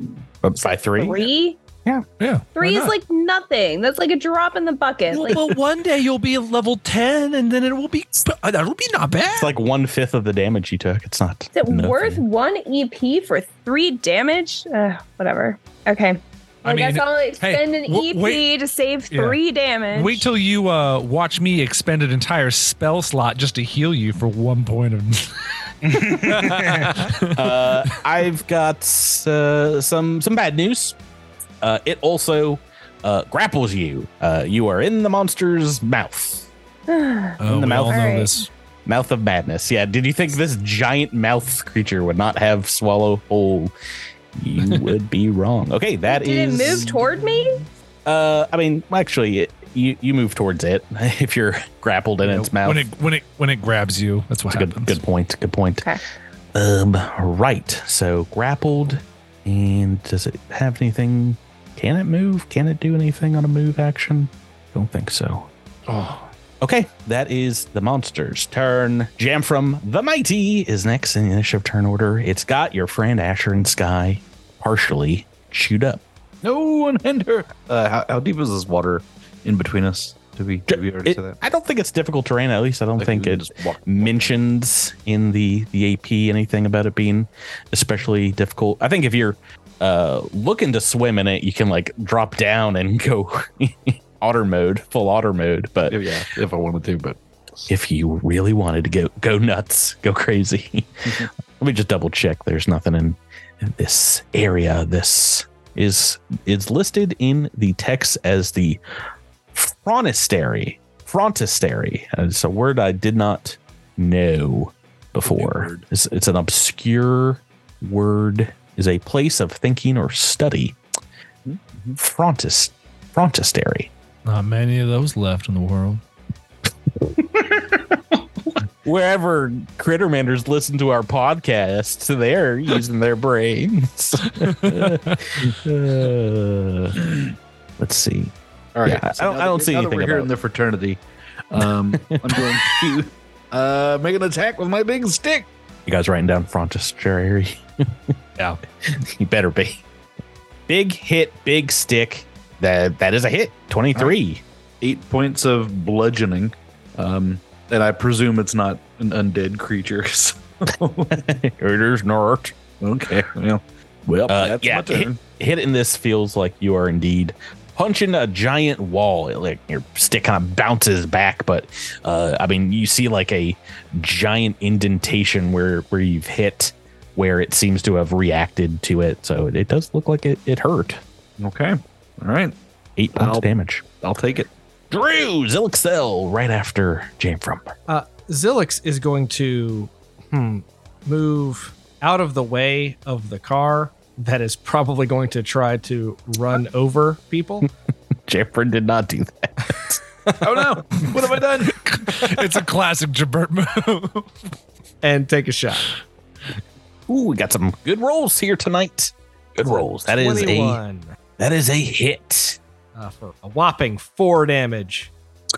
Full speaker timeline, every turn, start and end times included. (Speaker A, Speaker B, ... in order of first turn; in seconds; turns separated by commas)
Speaker A: 0.4-1.2, Speaker B: 0.9-1.6, Speaker C: 2.2-2.9, Speaker B: 2.5-5.5, Speaker C: 5.1-9.5, Speaker A: 9.3-12.2, Speaker B: 11.5-20.3, Speaker C: 16.6-18.5, Speaker C: 19.1-19.4, Speaker C: 19.9-25.4, Speaker C: 25.9-27.8, Speaker A: 25.9-30.9, Speaker A: 31.6-36.5, Speaker B: 36.9-38.3, Speaker C: 37.4-38.5, Speaker A: 37.4-38.2, Speaker A: 38.9-43.7, Speaker A: 44.4-47.1, Speaker C: 44.6-44.9, Speaker B: 46.1-47.6, Speaker A: 48.0-52.9, Speaker C: 52.2-55.0, Speaker A: 54.5-55.9, Speaker A: 56.5-65.5, Speaker C: 65.9-66.3, Speaker A: 66.6-76.0, Speaker D: 76.4-81.4, Speaker A: 80.7-96.0, Speaker D: 83.0-84.3, Speaker D: 95.9-97.2, Speaker A: 97.7-100.9, Speaker A: 101.6-108.8, Speaker A: 109.5-120.8, Speaker D: 115.3-115.8, Speaker D: 121.5-122.0, Speaker A: 122.0-123.9, Speaker C: 124.2-126.0, Speaker A: 128.8-137.1, Speaker C: 134.4-135.1, Speaker A: 137.8-138.3, Speaker D: 138.8-141.0, Speaker A: 138.8-140.3, Speaker D: 141.5-145.5, Speaker A: 141.6-142.5, Speaker A: 145.9-147.6, Speaker A: 148.8-149.8, Speaker A: 150.7-154.4, Speaker D: 154.8-161.2, Speaker A: 161.1-162.6, Speaker D: 162.8-165.2, Speaker A: 164.3-181.0, Speaker D: 181.4-182.5, Speaker A: 183.0-183.8, Speaker D: 183.1-184.5, Speaker A: 184.9-187.7, Speaker E: 187.9-197.7, Speaker A: 198.3-200.6, Speaker D: 200.4-201.8, Speaker C: 201.6-204.3, Speaker E: 205.0-205.9, Speaker A: 207.1-210.8, Speaker E: 210.1-211.2, Speaker A: 211.4-212.6, Speaker E: 212.9-215.1